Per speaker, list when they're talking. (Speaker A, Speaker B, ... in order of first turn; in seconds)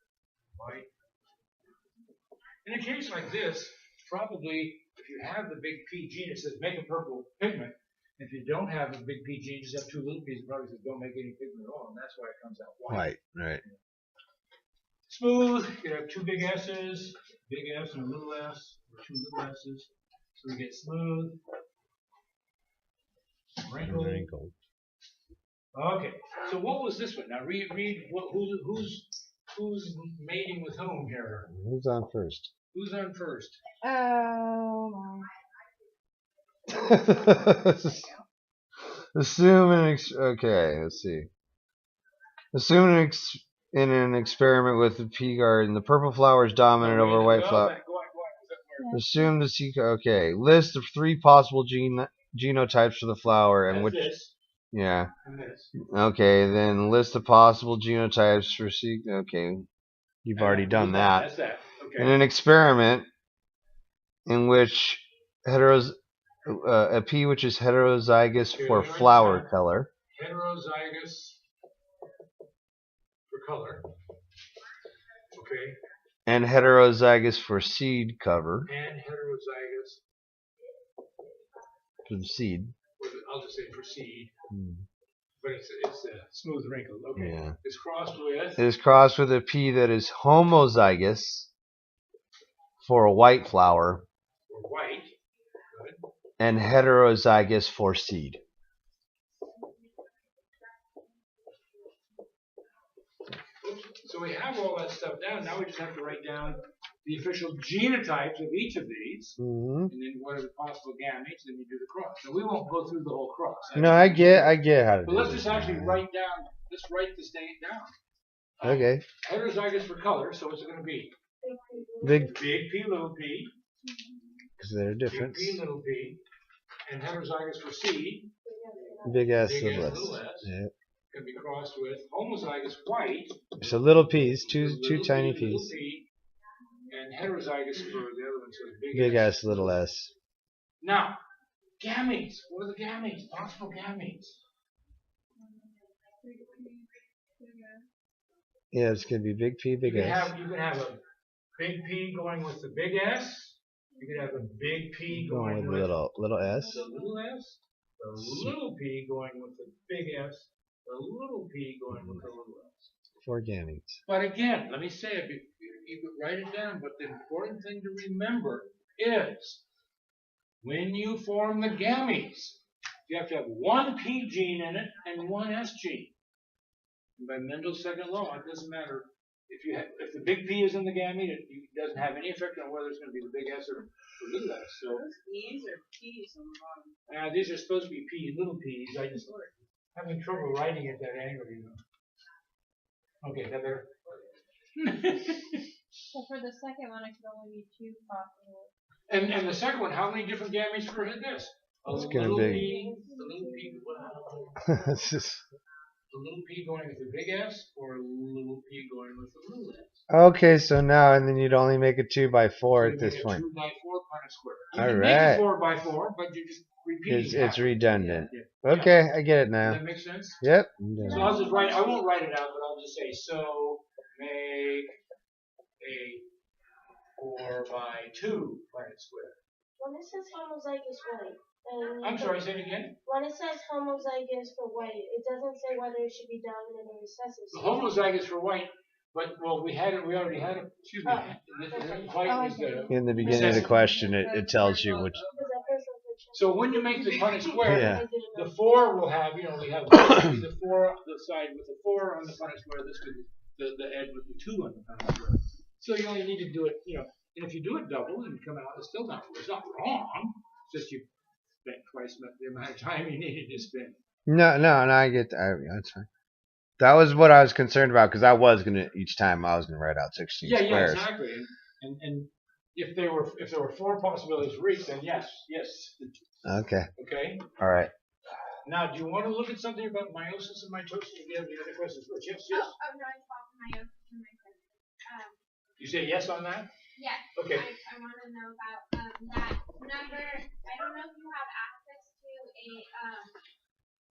Speaker A: 0.5-0.9, 2.6-13.8, 15.1-21.4, 23.6-24.3, 25.7-31.5, 32.7-33.6, 46.8-48.9, 53.7-54.3, 55.2-55.7, 60.4-62.1, 68.5-69.5, 70.1-71.4, 73.3-73.8, 75.3-75.8, 78.6-80.0, 83.0-84.3, 85.4-88.6, 94.5-95.2, 95.7-96.0, 103.6-117.9, 118.6-121.1, 122.2-123.5, 125.1-126.2, 126.8-128.3, 129.4-130.5, 131.1-136.1, 136.9-139.8, 140.8-141.2, 141.8-144.4, 149.8-151.0, 151.6-156.0, 156.6-162.9, 164.1-169.6, 170.6-176.1, 177.2-185.1, 187.1-191.8, 193.2-194.2, 194.7-195.7, 199.1-204.6, 206.1-210.0, 212.8-219.0, 219.6-220.4, 221.1-225.0, 225.8-226.2, 227.2-229.4, 232.0-232.9, 237.5-243.8, 246.3-261.1, 261.6-264.0, 270.4-276.1, 276.9-277.5, 278.6-282.7, 285.8-286.7, 287.3-287.7
Speaker B: 12.9-13.6, 23.8-24.5, 31.5-32.5, 36.7-38.1, 39.1-41.3, 42.5-47.7, 48.9-54.1, 54.7-55.1, 55.7-59.6, 60.2-61.3, 62.0-63.1, 64.2-69.9, 76.2-78.7, 82.0-82.7, 84.5-84.8, 87.2-87.5, 88.6-91.5, 92.8-94.0, 96.4-98.4, 109.4-109.9, 113.7-116.0, 118.6-119.0, 122.0-122.3, 124.6-125.6, 129.0-130.7, 133.6-135.7, 138.9-140.1, 148.7-150.3, 155.1-156.8, 158.2-158.5, 163.2-164.0, 201.9-202.7, 204.6-205.4, 210.1-213.4, 214.7-215.4, 217.1-219.8, 220.4-221.5, 242.9-245.2, 247.6-248.0, 264.3-266.1, 266.8-271.1, 276.4-276.9, 277.6-277.9
Speaker C: 33.8-35.2, 145.4-147.8, 156.7-157.1, 196.1-198.7, 242.2-245.3, 282.5-285.4, 286.9-293.4
Speaker D: 121.4-122.4, 128.4-129.3, 201.9-204.6, 221.0-222.0, 229.8-232.4, 233.0-237.9, 241.0-243.9, 245.3-249.0
Speaker E: 184.9-186.9, 244.8-245.4